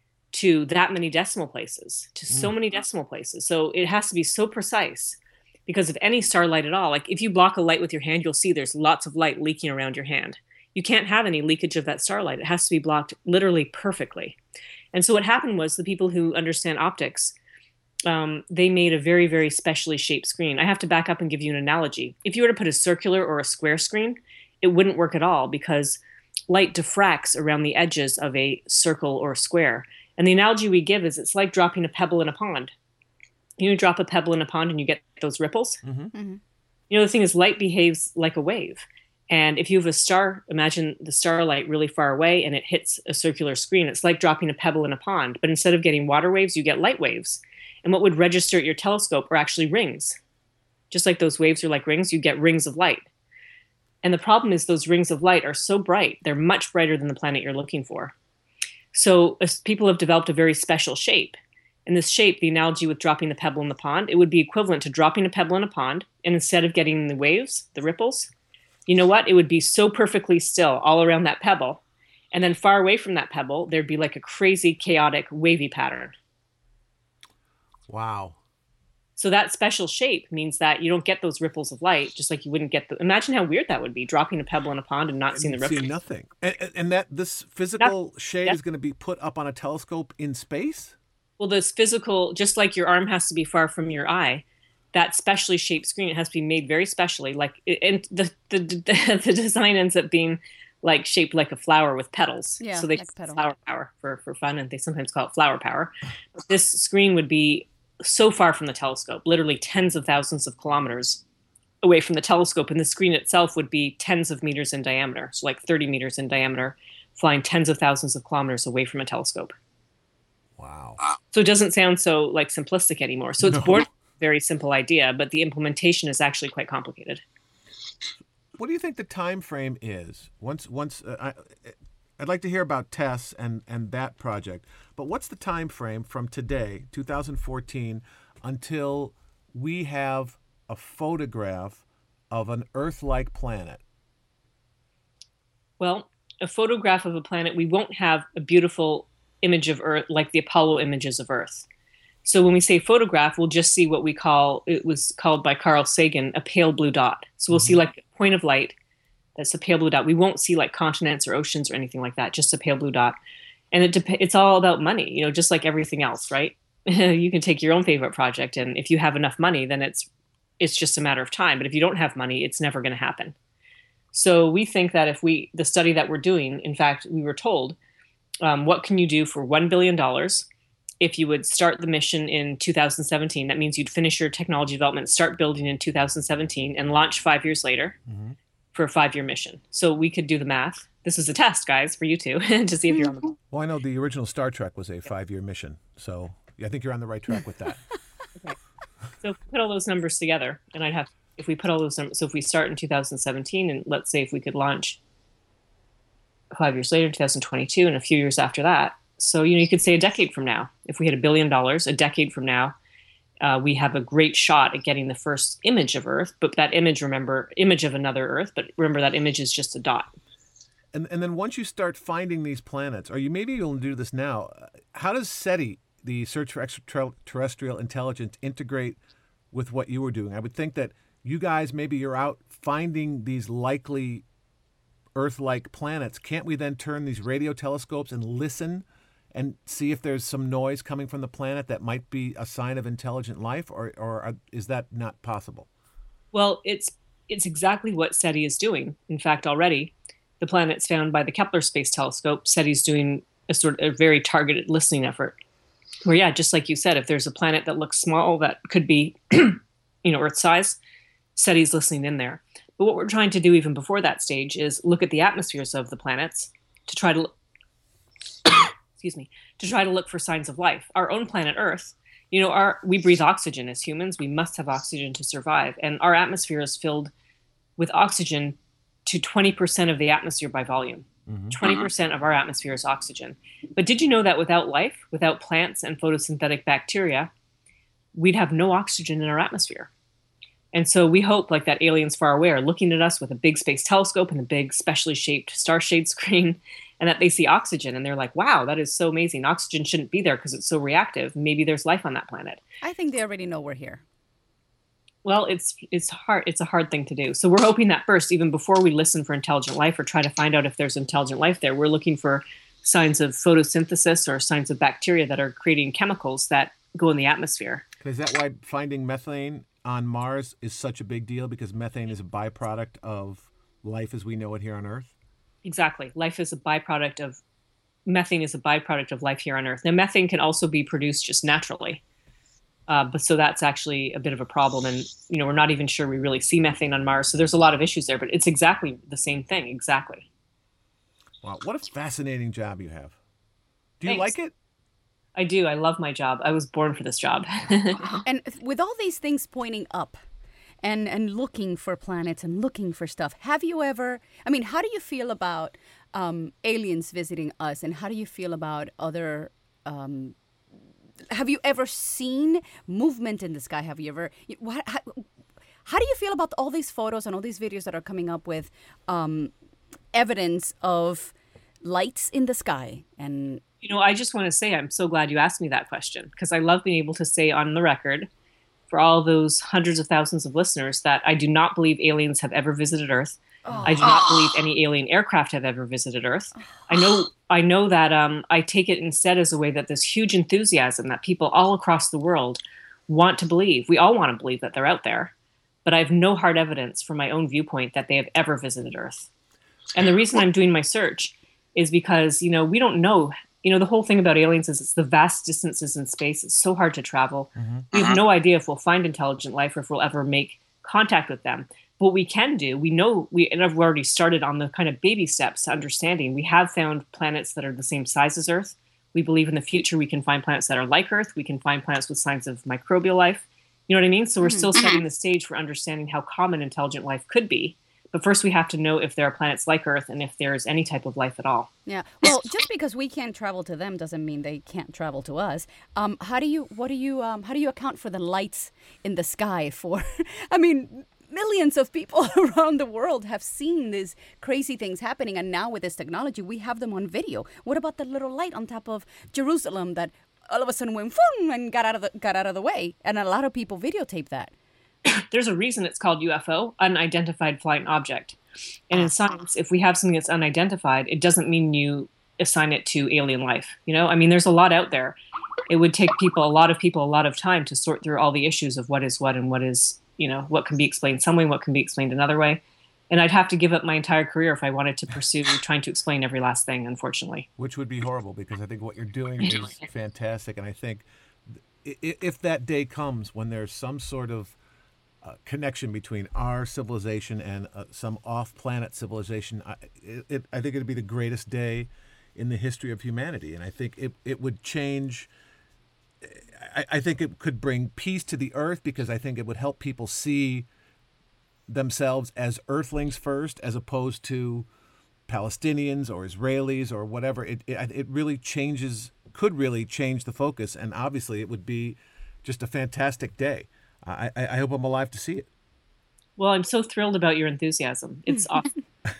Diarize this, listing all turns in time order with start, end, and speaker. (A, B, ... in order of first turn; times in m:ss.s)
0:00.3-0:14.4 A
0:14.9-0:17.3 A
0:18.0-0:32.7 A
0:33.6-0:35.8 A
0:35.8-0:36.1 B
0:36.1-0:36.4 C
0:36.9-0:50.2 A
0:50.9-0:53.0 A
0:54.0-0:58.1 A
0:58.9-1:08.3 A
1:08.9-1:11.8 A
1:12.3-1:16.1 A
1:17.9-1:18.4 B
1:19.2-1:25.9 A
1:25.3-1:30.9 B
1:31.4-1:51.2 A
1:42.6-1:43.4 C
1:51.8-1:59.5 A
2:00.6-2:01.1 B
2:01.3-2:07.2 A
2:03.4-2:03.9 B
2:08.6-2:23.8 B
2:25.8-2:31.6 A
2:32.2-2:38.7 A
2:37.5-2:37.8 B
2:39.4-2:43.2 A
2:43.7-2:50.1 A
2:50.6-2:53.3 A
2:54.1-2:57.8 A
2:58.4-3:00.4 A
3:01.0-3:08.0 A
3:08.1-3:08.4 B
3:08.7-3:13.4 A
3:13.5-3:17.8 B
3:19.2-3:25.0 A
3:26.5-3:32.7 A
3:33.4-3:40.1 A
3:40.9-3:49.0 B
3:49.5-3:54.2 B
3:55.1-4:05.7 B
4:06.3-4:15.4 A
4:16.0-4:20.8 A
4:21.3-4:27.3 A
4:29.0-4:37.1 A
4:37.8-4:47.3 A
4:41.3-4:41.6 B
4:48.1-4:49.9 A
4:50.7-5:02.6 A
5:02.8-5:04.0 C
5:05.2-5:17.8 A
5:18.0-5:25.1 B
5:25.6-5:27.4 A
5:28.0-5:32.0 A
5:32.9-5:40.3 A
5:41.4-5:43.2 B
5:44.0-5:44.5 B
5:44.0-5:44.3 A
5:45.3-5:48.2 A
5:48.2-5:50.2 C
5:50.8-6:00.4 C
6:01.3-6:05.2 C
6:05.8-6:09.5 C
6:10.1-6:13.6 C
6:13.8-6:18.3 A
6:18.9-6:35.3 A
6:23.6-6:23.9 C
6:35.8-6:39.3 A
6:39.9-7:11.7 A
6:47.6-6:48.0 B
7:11.8-7:34.5 C
7:35.0-7:38.4 A
7:38.9-7:45.2 A
7:45.7-7:57.5 A
7:57.6-8:01.0 B
8:01.8-8:04.6 B
8:05.2-8:15.3 B
8:16.2-8:20.7 B
8:21.7-8:24.7 B
8:25.3-8:35.5 B
8:36.4-8:38.8 A